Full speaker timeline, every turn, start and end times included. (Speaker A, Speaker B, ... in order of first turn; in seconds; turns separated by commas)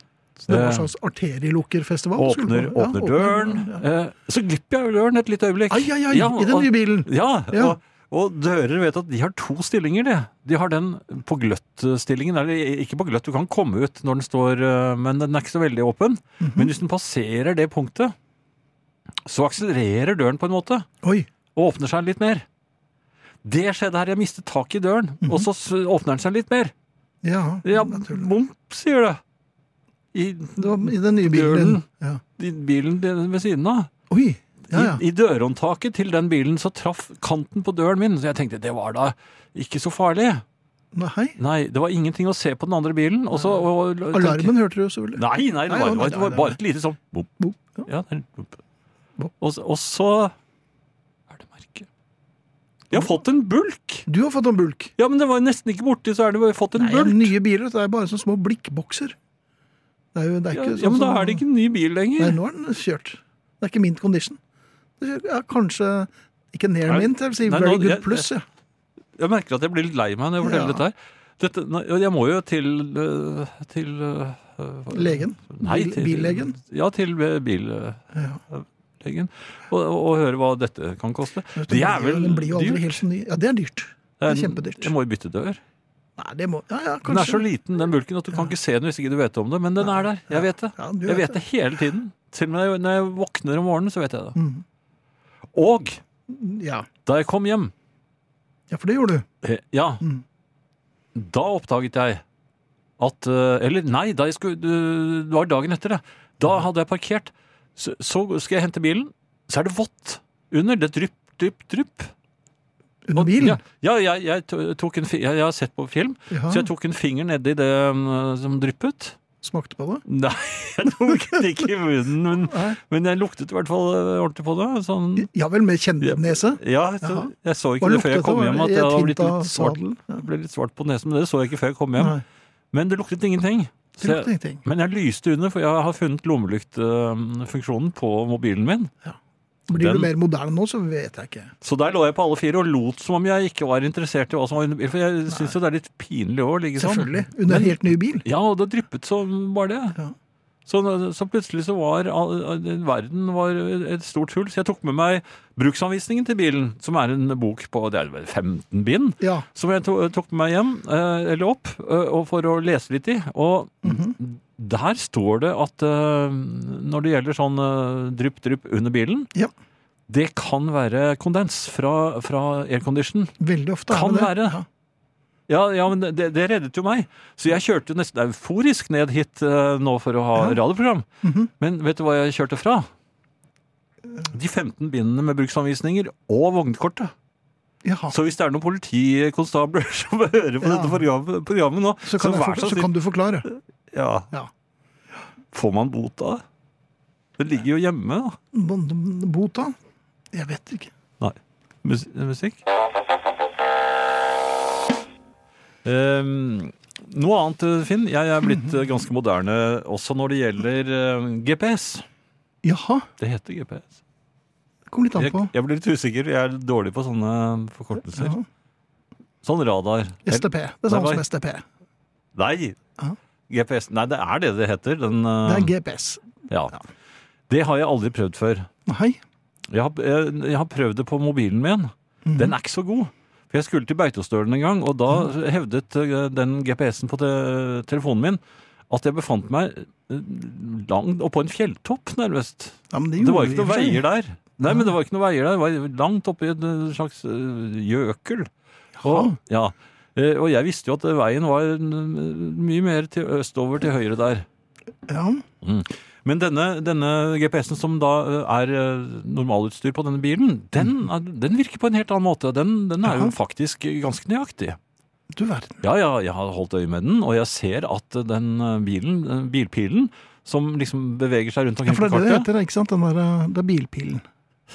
Speaker A: 0.4-3.8, Speaker B: 0.5-0.9, Speaker B: 2.2-18.1, Speaker A: 5.7-7.8, Speaker A: 16.4-16.7, Speaker B: 19.2-20.9, Speaker A: 21.0-21.3, Speaker B: 21.5-22.4, Speaker B: 23.4-26.7, Speaker A: 25.2-25.5, Speaker A: 27.2-28.3, Speaker B: 27.6-29.2, Speaker B: 30.1-31.8, Speaker A: 30.6-32.2, Speaker B: 32.4-33.9, Speaker A: 34.1-35.0, Speaker B: 34.7-40.4, Speaker A: 40.9-41.4, Speaker B: 41.4-44.5, Speaker A: 44.1-46.6, Speaker B: 45.1-47.3, Speaker A: 47.4-47.9, Speaker B: 47.8-48.5, Speaker B: 49.4-50.3, Speaker B: 51.3-51.9, Speaker B: 52.9-54.1, Speaker A: 54.1-54.9, Speaker B: 55.0-57.3, Speaker A: 56.8-59.1, Speaker A: 60.1-61.4, Speaker B: 60.5-62.4, Speaker A: 62.2-64.4, Speaker A: 65.0-68.4, Speaker B: 66.9-68.3, Speaker B: 69.2-78.0, Speaker A: 70.4-70.8, Speaker A: 74.9-76.5, Speaker A: 78.1-78.4, Speaker B: 78.5-83.0, Speaker A: 81.5-84.9, Speaker B: 84.2-85.6, Speaker A: 86.2-87.4, Speaker B: 87.0-94.4, Speaker A: 89.8-91.4, Speaker A: 94.3-94.6, Speaker B: 95.5-96.0, Speaker A: 96.3-96.9, Speaker B: 97.0-97.7, Speaker A: 98.7-99.2, Speaker B: 99.4-100.0, Speaker B: 101.1-102.2, Speaker B: 103.0-112.1, Speaker A: 113.0-113.6, Speaker B: 113.1-119.2, Speaker A: 116.3-116.7, Speaker A: 119.4-120.0, Speaker B: 120.1-125.3, Speaker A: 122.5-122.8, Speaker A: 125.2-130.2, Speaker B: 126.0-132.2, Speaker A: 132.0-132.2, Speaker B: 132.7-138.9, Speaker A: 134.0-134.6, Speaker A: 139.7-141.5, Speaker B: 139.7-140.1, Speaker B: 141.6-150.0, Speaker A: 146.8-148.2, Speaker B: 150.7-169.3, Speaker A: 159.2-159.5, Speaker A: 163.8-164.1, Speaker B: 170.1-173.3, Speaker A: 173.4-174.6, Speaker B: 173.9-174.6, Speaker B: 175.5-181.1, Speaker A: 181.2-181.5, Speaker B: 181.6-182.9, Speaker B: 184.3-187.1, Speaker A: 187.8-188.2, Speaker B: 188.1-192.9, Speaker A: 190.6-191.0, Speaker A: 192.0-193.5, Speaker B: 193.5-194.3, Speaker B: 195.5-196.4, Speaker B: 197.4-198.4, Speaker A: 198.5-199.8, Speaker A: 200.3-200.9, Speaker B: 201.2-202.6, Speaker B: 205.8-212.0, Speaker A: 212.6-213.1, Speaker B: 213.2-213.9, Speaker A: 214.9-215.5, Speaker B: 215.2-218.4, Speaker A: 218.2-218.4, Speaker B: 219.4-221.2, Speaker A: 220.2-221.6, Speaker B: 222.3-222.8, Speaker B: 223.5-225.7, Speaker A: 225.4-226.2, Speaker B: 226.5-226.8, Speaker B: 227.5-228.7, Speaker A: 228.8-229.2, Speaker B: 229.7-238.4, Speaker A: 232.2-232.5, Speaker B: 238.9-248.5, Speaker A: 242.9-244.0, Speaker A: 249.0-249.3, Speaker B: 249.0-254.4, Speaker A: 255.1-255.4, Speaker B: 255.6-264.8, Speaker A: 263.0-263.3, Speaker A: 265.3-265.8, Speaker B: 265.8-272.5, Speaker A: 271.9-274.2